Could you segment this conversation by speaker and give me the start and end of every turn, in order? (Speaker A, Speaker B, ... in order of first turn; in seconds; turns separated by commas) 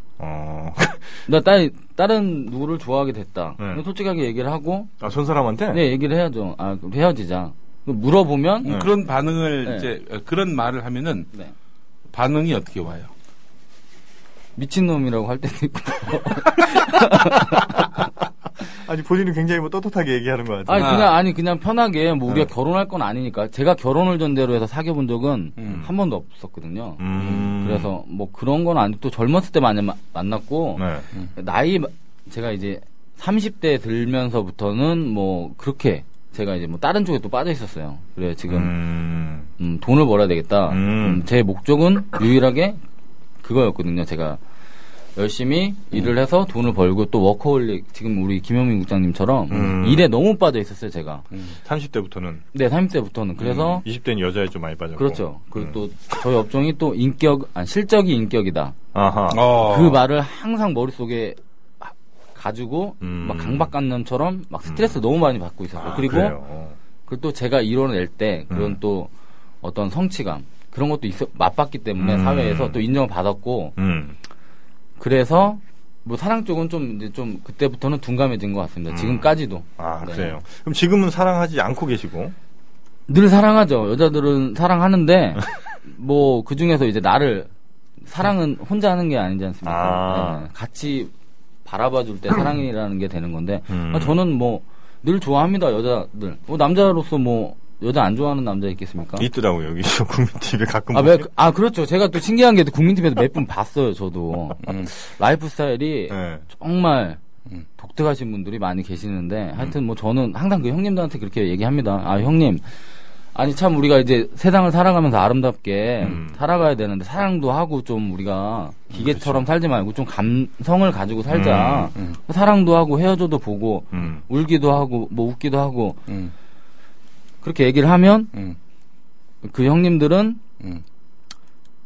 Speaker A: 0.2-1.3, Speaker B: 1.3-4.9, Speaker A: 5.0-5.8, Speaker B: 5.7-8.8, Speaker C: 8.6-11.3, Speaker A: 8.7-8.9, Speaker C: 12.1-13.1, Speaker B: 14.6-18.0, Speaker A: 16.9-17.8, Speaker A: 18.6-21.1, Speaker B: 20.7-38.8, Speaker C: 20.8-21.1, Speaker C: 25.6-25.9, Speaker A: 27.0-27.9, Speaker C: 27.2-27.5, Speaker A: 30.8-31.1, Speaker A: 38.5-39.5, Speaker B: 39.6-42.8, Speaker A: 40.7-41.3, Speaker B: 43.4-44.4, Speaker B: 45.2-51.2, Speaker A: 49.5-50.1, Speaker C: 51.3-51.6, Speaker A: 51.6-52.4, Speaker B: 52.5-53.9, Speaker A: 53.6-55.8, Speaker B: 55.0-58.8, Speaker A: 58.9-59.5, Speaker C: 59.3-60.0, Speaker B: 59.5-66.4, Speaker A: 63.0-63.7, Speaker A: 64.7-65.0, Speaker A: 65.8-66.8, Speaker B: 67.1-69.1, Speaker A: 68.5-68.8, Speaker B: 69.6-73.8, Speaker A: 72.0-72.8, Speaker A: 73.8-74.2, Speaker B: 75.0-80.4, Speaker A: 78.9-82.3, Speaker B: 83.1-87.5, Speaker B: 88.0-91.1, Speaker A: 89.6-90.5, Speaker B: 91.7-99.3, Speaker A: 93.7-94.2, Speaker A: 99.2-101.3, Speaker B: 100.9-107.2, Speaker C: 104.6-104.9, Speaker A: 106.1-106.5, Speaker B: 107.8-112.7, Speaker B: 113.3-126.0, Speaker A: 116.0-116.4, Speaker A: 118.9-119.4, Speaker A: 121.3-121.9, Speaker A: 123.9-124.2, Speaker C: 126.1-126.3, Speaker B: 127.4-128.3, Speaker B: 129.4-130.4